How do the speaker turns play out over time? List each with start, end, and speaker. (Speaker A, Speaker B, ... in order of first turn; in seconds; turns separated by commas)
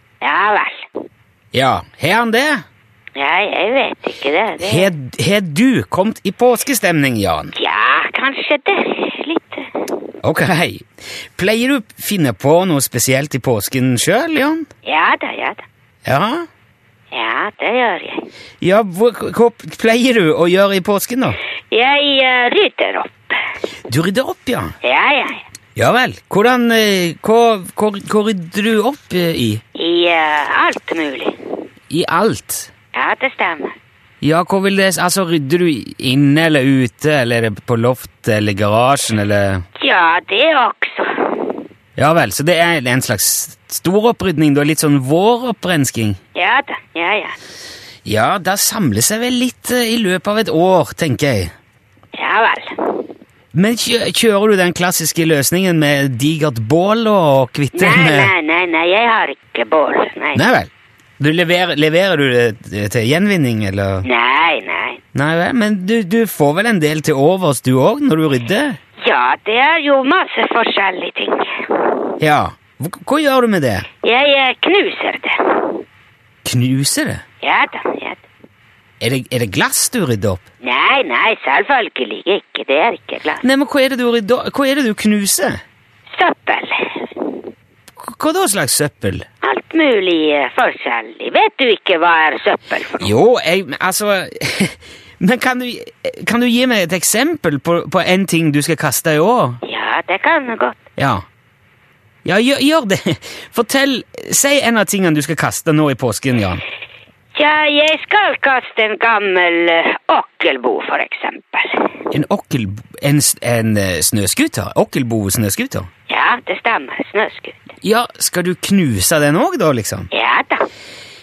Speaker A: 0.2-0.9, Speaker B: 1.5-2.6, Speaker A: 3.1-4.9, Speaker B: 4.6-7.5, Speaker A: 7.5-9.8, Speaker B: 10.2-14.7, Speaker A: 14.8-15.6, Speaker B: 16.0-16.4, Speaker A: 17.1-18.2, Speaker B: 18.6-21.4, Speaker A: 21.7-23.4, Speaker B: 23.9-24.7, Speaker A: 24.8-25.4, Speaker B: 25.8-29.6, Speaker A: 29.7-31.3, Speaker B: 31.9-32.7, Speaker A: 32.9-33.8, Speaker B: 34.2-39.6, Speaker A: 39.8-41.5, Speaker B: 42.0-46.2, Speaker A: 46.3-47.4, Speaker B: 48.0-51.5, Speaker A: 52.1-53.0, Speaker B: 53.5-58.3, Speaker A: 57.7-60.4, Speaker B: 60.3-64.0, Speaker A: 64.0-65.0, Speaker B: 65.1-68.8, Speaker A: 69.0-71.9, Speaker B: 72.2-73.9, Speaker A: 74.0-75.8, Speaker B: 76.4-77.2, Speaker A: 77.4-78.2, Speaker B: 79.0-80.4, Speaker A: 80.6-83.4, Speaker B: 83.4-85.6, Speaker A: 86.1-87.3, Speaker B: 88.0-89.2, Speaker A: 89.4-93.1, Speaker B: 93.0-99.6, Speaker A: 99.6-100.8, Speaker B: 101.0-101.2, Speaker B: 102.2-106.6, Speaker A: 107.3-111.8, Speaker B: 112.1-115.9, Speaker A: 116.1-117.6, Speaker B: 117.8-120.1, Speaker A: 120.1-120.7